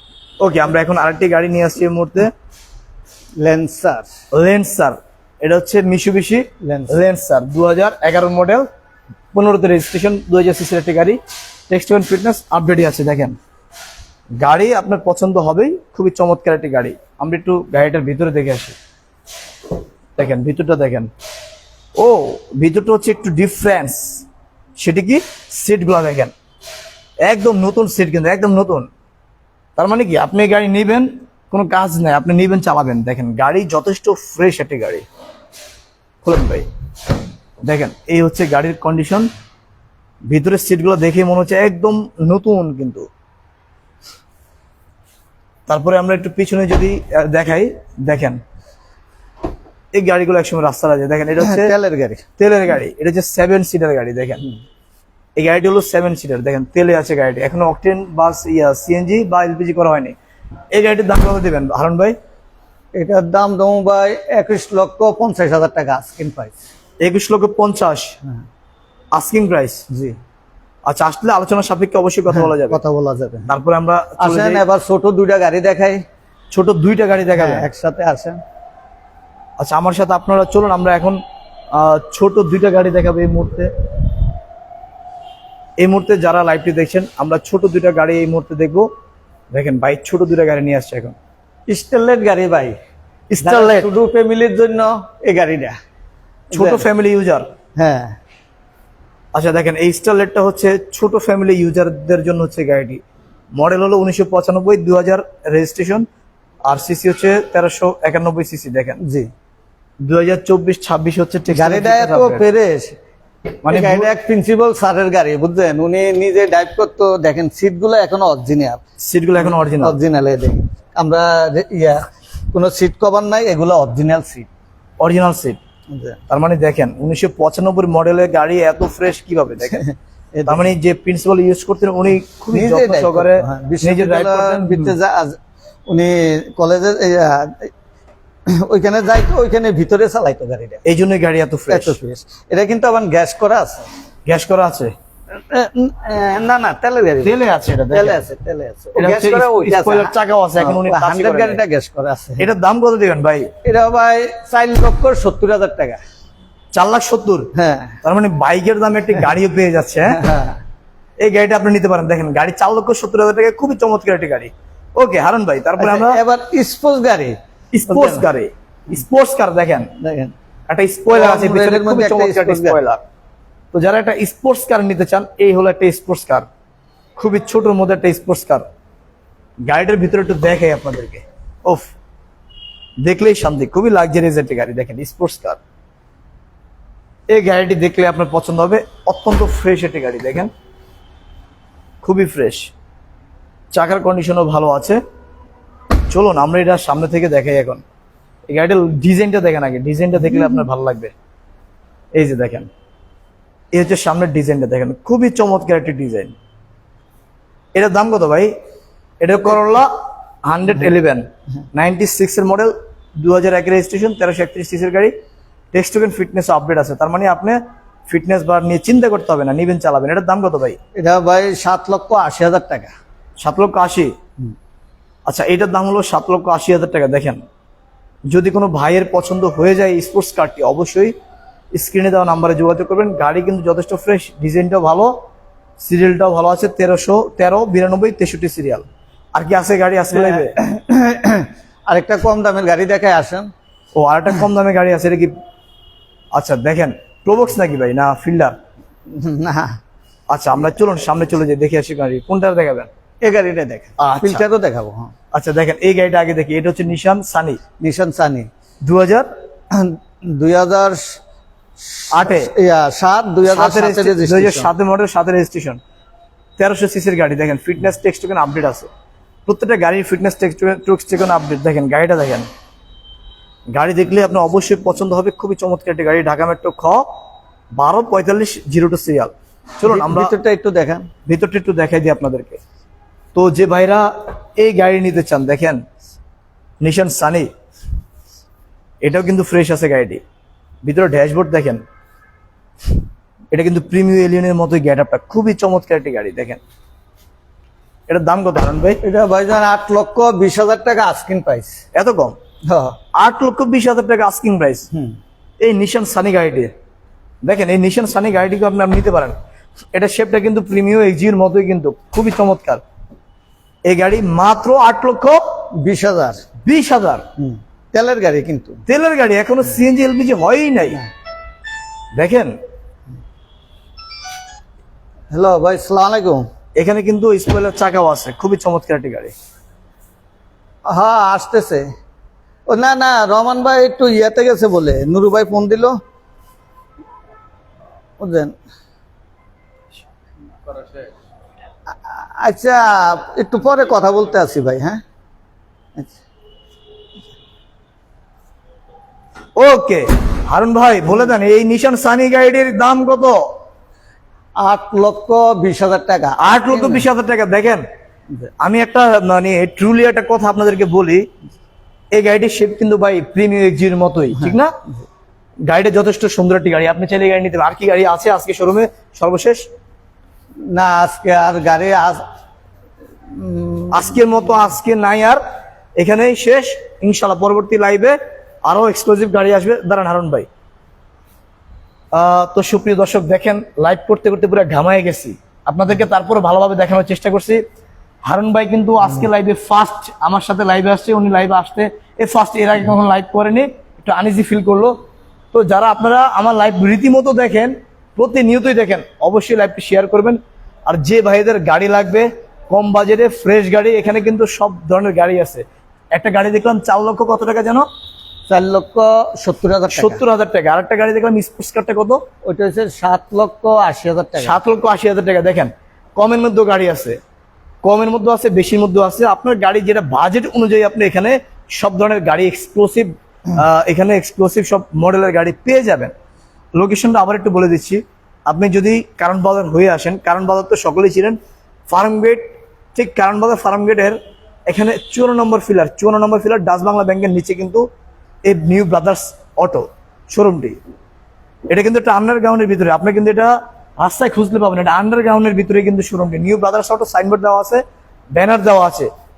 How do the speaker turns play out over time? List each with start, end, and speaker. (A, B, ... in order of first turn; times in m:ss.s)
0:00.4-0:02.3 A
0:03.4-0:04.1 B
0:04.3-0:08.7 A
0:06.6-0:07.0 B
0:09.3-0:13.4 A
0:14.4-0:18.8 A
0:20.2-0:21.1 A
0:22.0-0:24.2 A
0:24.8-0:26.3 A
0:27.2-0:28.9 A
0:29.8-0:35.1 A
0:36.2-0:36.7 A
0:37.6-0:39.3 A
0:40.3-0:43.1 A
0:45.7-0:48.4 A
0:49.9-0:51.7 A
0:51.4-0:52.2 B
0:52.4-0:54.4 A
0:55.4-1:00.2 A
1:00.7-1:02.2 A
1:02.9-1:06.6 B
1:07.0-1:08.2 A
1:09.1-1:09.8 A
1:09.9-1:10.2 B
1:10.9-1:12.8 A
1:12.3-1:13.5 B
1:13.5-1:14.6 A
1:14.2-1:16.0 B
1:16.5-1:17.7 A
1:17.3-1:18.4 B
1:19.6-1:21.2 A
1:21.7-1:23.7 A
1:25.8-1:28.9 A
1:29.5-1:31.2 A
1:31.7-1:32.8 B
1:33.3-1:33.9 A
1:33.4-1:35.8 B
1:36.5-1:37.5 A
1:36.5-1:36.8 B
1:37.8-1:38.2 B
1:39.3-1:43.0 A
1:43.6-1:46.1 A
1:46.6-1:49.0 A
1:49.0-1:49.3 B
1:50.0-1:52.4 A
1:51.5-1:53.0 B
1:53.6-1:54.1 A
1:53.7-1:58.8 B
1:59.0-2:00.0 A
1:59.4-2:04.5 B
2:05.0-2:05.6 A
2:05.9-2:06.2 B
2:06.3-2:09.9 A
2:09.8-2:10.7 B
2:10.4-2:14.9 A
2:12.5-2:17.7 B
2:18.5-2:20.8 B
2:20.8-2:22.0 A
2:21.7-2:23.9 B
2:24.3-2:24.9 A
2:25.3-2:27.4 B
2:27.2-2:28.2 A
2:27.9-2:32.5 B
2:29.0-2:31.6 A
2:32.4-2:33.5 A
2:33.6-2:36.0 B
2:36.8-2:37.5 A
2:37.6-2:38.0 B
2:38.0-2:40.2 A
2:40.1-2:40.6 B
2:41.2-2:46.2 A
2:45.8-2:47.4 B
2:47.7-2:49.9 A
2:47.9-2:48.3 B
2:50.0-2:50.3 B
2:50.7-2:53.0 A
2:51.1-2:52.8 B
2:53.7-2:56.5 A
2:57.2-2:58.6 A
2:59.6-3:01.9 A
3:03.0-3:05.6 A
3:07.3-3:10.5 A
3:12.0-3:12.7 A
3:13.7-3:15.0 A
3:16.1-3:17.8 A
3:18.5-3:21.1 A
3:22.1-3:22.7 A
3:23.7-3:26.4 A
3:27.8-3:28.6 A
3:29.2-3:29.9 A
3:30.4-3:35.1 A
3:35.7-3:40.8 A
3:41.0-3:42.9 B
3:43.4-3:44.2 A
3:45.3-3:47.4 A
3:48.3-3:51.1 A
3:51.7-3:55.1 A
3:55.8-4:00.6 A
4:00.1-4:03.5 B
4:04.0-4:05.3 A
4:06.3-4:08.6 A
4:09.1-4:09.8 B
4:10.3-4:12.9 A
4:13.2-4:15.1 B
4:14.0-4:14.4 A
4:15.3-4:17.6 A
4:17.8-4:18.5 B
4:18.8-4:19.3 A
4:19.7-4:21.2 B
4:22.0-4:24.7 B
4:22.1-4:22.5 A
4:23.5-4:25.8 A
4:26.6-4:28.9 A
4:29.5-4:32.5 A
4:33.7-4:37.1 A
4:37.7-4:40.4 A
4:39.9-4:41.1 B
4:41.3-4:42.6 A
4:43.4-4:45.8 A
4:46.8-4:47.5 A
4:49.0-4:50.2 A
4:50.8-4:51.8 A
4:53.5-4:56.6 A
4:58.1-4:59.0 A
4:59.0-5:01.8 B
5:01.9-5:02.4 A
5:02.7-5:03.0 B
5:03.1-5:04.9 A
5:04.9-5:05.2 B
5:05.6-5:06.7 A
5:07.4-5:09.4 A
5:09.9-5:12.8 A
5:13.9-5:15.4 A
5:15.8-5:16.4 B
5:16.6-5:17.3 A
5:17.4-5:18.8 B
5:18.9-5:21.0 A
5:22.2-5:22.6 A
5:25.3-5:26.4 B
5:26.8-5:29.3 A
5:30.9-5:31.9 B
5:32.7-5:36.0 B
5:38.2-5:38.6 B
5:41.9-5:45.0 B
5:49.6-5:53.5 A
5:54.6-5:57.1 B
5:56.4-5:57.8 A
5:58.6-6:01.3 A
6:02.1-6:04.7 A
6:05.6-6:09.6 A
6:10.6-6:12.2 B
6:13.3-6:14.2 B
6:13.9-6:15.4 A
6:16.0-6:20.5 A
6:22.1-6:27.6 A
6:28.3-6:35.0 A
6:35.5-6:47.9 A
6:48.5-6:50.2 B
6:49.9-6:52.2 A
6:52.4-6:54.6 B
6:54.4-6:57.2 A
6:57.8-7:06.1 A
7:06.8-7:17.9 A
7:18.4-7:20.8 A
7:21.7-7:27.8 A
7:28.3-7:29.1 A